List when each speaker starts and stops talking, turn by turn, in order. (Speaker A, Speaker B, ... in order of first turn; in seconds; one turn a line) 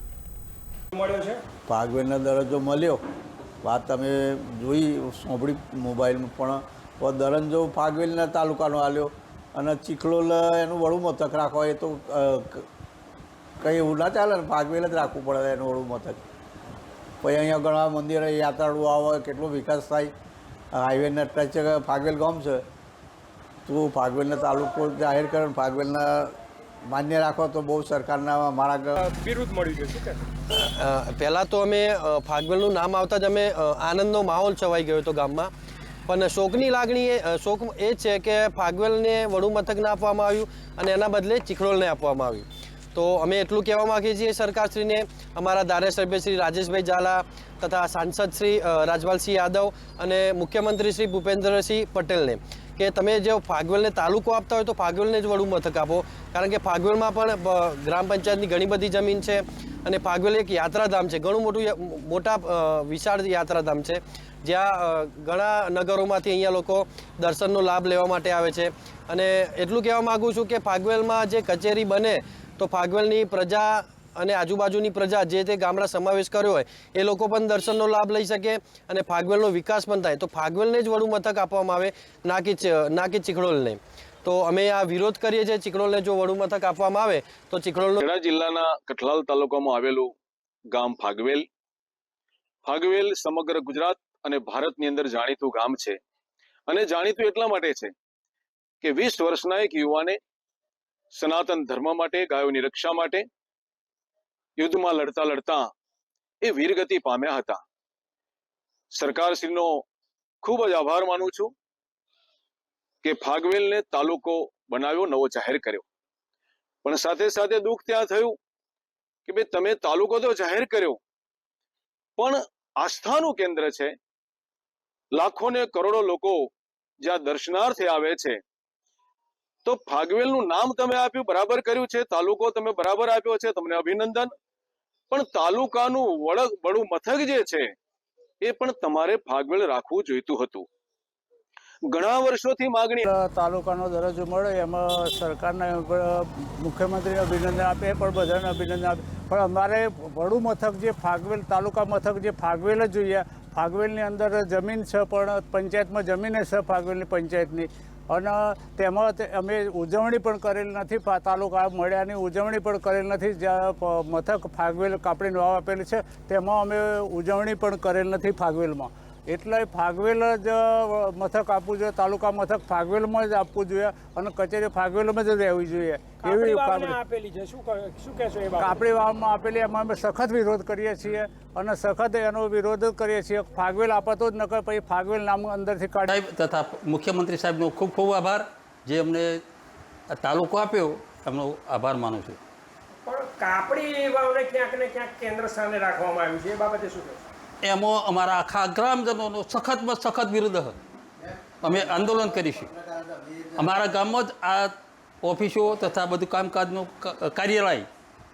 Speaker A: 0.9-1.4
Speaker B: 1.7-3.0
Speaker B: 3.6-12.7
Speaker B: 13.6-16.2
Speaker B: 17.2-20.1
Speaker B: 20.7-22.6
Speaker B: 23.7-26.3
Speaker B: 26.9-28.9
Speaker A: 29.0-30.2
Speaker C: 30.5-35.5
Speaker C: 36.1-88.0
Speaker D: 88.0-90.1
Speaker D: 90.7-91.5
Speaker D: 92.7-96.0
Speaker D: 96.7-97.9
Speaker D: 98.8-100.2
Speaker D: 101.2-103.3
Speaker D: 104.6-105.7
Speaker D: 106.4-107.6
Speaker D: 108.9-109.8
Speaker D: 110.4-111.5
Speaker D: 113.0-115.8
Speaker D: 116.8-118.4
Speaker D: 119.3-121.0
Speaker D: 122.2-123.9
Speaker D: 125.1-126.5
Speaker D: 127.0-128.4
Speaker D: 129.6-134.3
Speaker D: 135.1-137.7
Speaker D: 138.4-140.7
Speaker D: 141.9-143.1
Speaker E: 143.1-177.0
Speaker A: 176.2-178.9
Speaker E: 178.6-186.1
Speaker F: 186.1-189.4
Speaker F: 190.1-192.4
Speaker A: 193.0-197.3
Speaker F: 197.6-200.8
Speaker B: 201.2-203.9
Speaker F: 201.6-202.7
Speaker F: 203.6-207.9